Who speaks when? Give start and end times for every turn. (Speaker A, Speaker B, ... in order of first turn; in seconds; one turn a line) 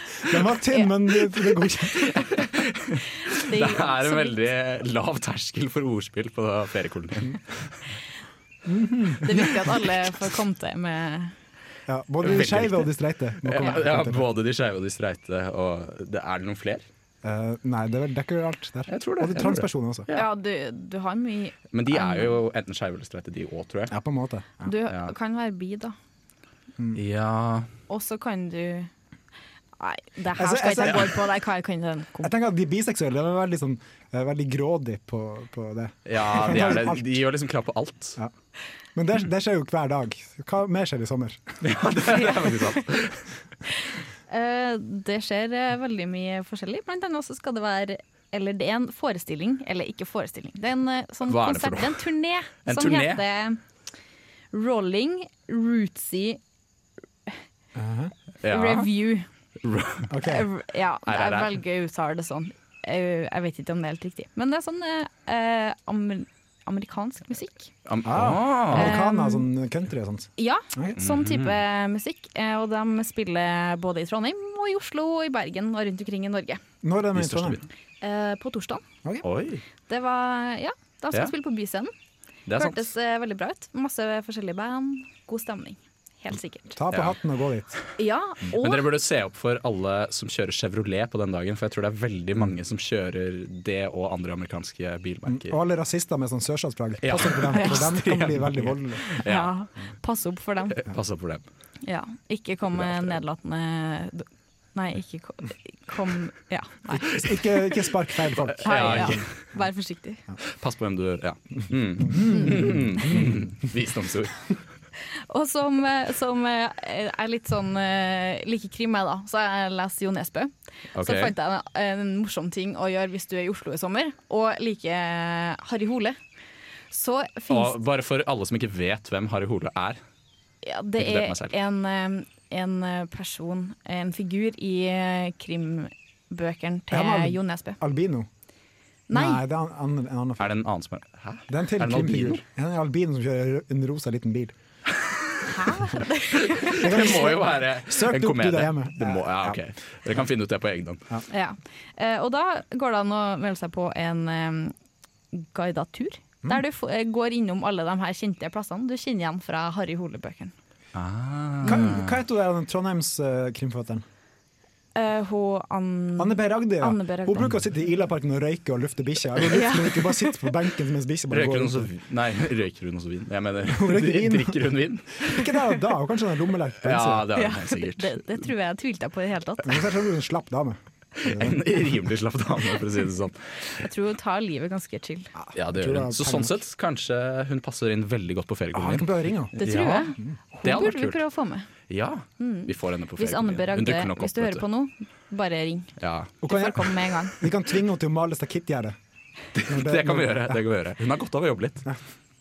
Speaker A: 0.2-2.1
Speaker B: 2.1-7.8
Speaker C: 3.3-4.4
Speaker A: 8.7-9.3
Speaker C: 9.2-11.3
Speaker A: 11.9-14.2
Speaker B: 12.2-12.9
Speaker B: 13.4-16.8
Speaker A: 17.2-20.1
Speaker B: 18.9-20.3
Speaker C: 20.1-22.3
Speaker B: 21.7-23.9
Speaker A: 23.9-24.7
Speaker C: 24.6-25.9
Speaker B: 26.9-27.7
Speaker C: 27.9-28.9
Speaker C: 29.8-32.3
Speaker A: 30.3-31.2
Speaker A: 32.2-37.1
Speaker B: 36.1-38.2
Speaker A: 38.9-41.6
Speaker B: 41.6-43.2
Speaker C: 42.1-42.6
Speaker C: 44.3-53.6
Speaker B: 51.2-53.2
Speaker C: 54.5-56.4
Speaker A: 57.8-58.1
Speaker B: 58.4-58.9
Speaker C: 58.5-59.2
Speaker B: 59.6-60.1
Speaker A: 60.1-60.5
Speaker C: 60.2-67.7
Speaker B: 61.0-61.6
Speaker B: 67.8-69.0
Speaker A: 68.0-71.0
Speaker C: 68.7-69.5
Speaker C: 70.4-76.6
Speaker B: 71.0-71.6
Speaker A: 76.8-77.6
Speaker B: 77.1-77.6
Speaker C: 78.0-78.8
Speaker B: 79.2-79.6
Speaker C: 79.9-81.9
Speaker B: 82.5-82.9
Speaker C: 82.6-86.8
Speaker A: 86.8-87.8
Speaker B: 86.9-87.2
Speaker C: 88.0-88.8
Speaker B: 88.6-95.6
Speaker A: 95.3-99.0
Speaker B: 97.0-99.5
Speaker C: 99.1-100.8
Speaker B: 100.7-101.4
Speaker C: 101.8-107.7
Speaker B: 102.7-103.2
Speaker A: 107.1-109.2
Speaker B: 108.5-109.3
Speaker C: 108.6-110.2
Speaker B: 110.4-114.6
Speaker A: 112.1-113.4
Speaker C: 112.3-112.6
Speaker C: 115.3-126.2
Speaker B: 120.9-121.3
Speaker C: 126.9-127.7
Speaker B: 127.5-130.0
Speaker C: 130.6-137.8
Speaker B: 131.0-131.5
Speaker A: 136.9-138.3
Speaker C: 139.1-139.4
Speaker A: 139.1-140.6
Speaker B: 140.4-142.4
Speaker A: 141.5-144.5
Speaker C: 145.5-146.9
Speaker B: 146.6-151.0
Speaker A: 146.7-149.6
Speaker C: 151.3-154.7
Speaker C: 155.3-160.5
Speaker B: 160.9-162.1
Speaker A: 161.6-164.0
Speaker C: 164.9-167.4
Speaker A: 166.2-171.9
Speaker C: 169.5-170.4
Speaker B: 171.3-175.7
Speaker A: 173.7-177.3
Speaker B: 176.8-178.3
Speaker C: 177.3-179.8
Speaker A: 179.6-181.6
Speaker B: 181.3-183.9
Speaker C: 183.8-185.3
Speaker A: 185.4-186.5
Speaker B: 185.5-191.2
Speaker A: 188.7-189.6
Speaker C: 189.6-191.7
Speaker B: 191.9-194.7
Speaker C: 192.4-197.4
Speaker B: 196.0-196.3
Speaker A: 196.4-198.9
Speaker B: 199.5-201.9
Speaker A: 199.7-200.6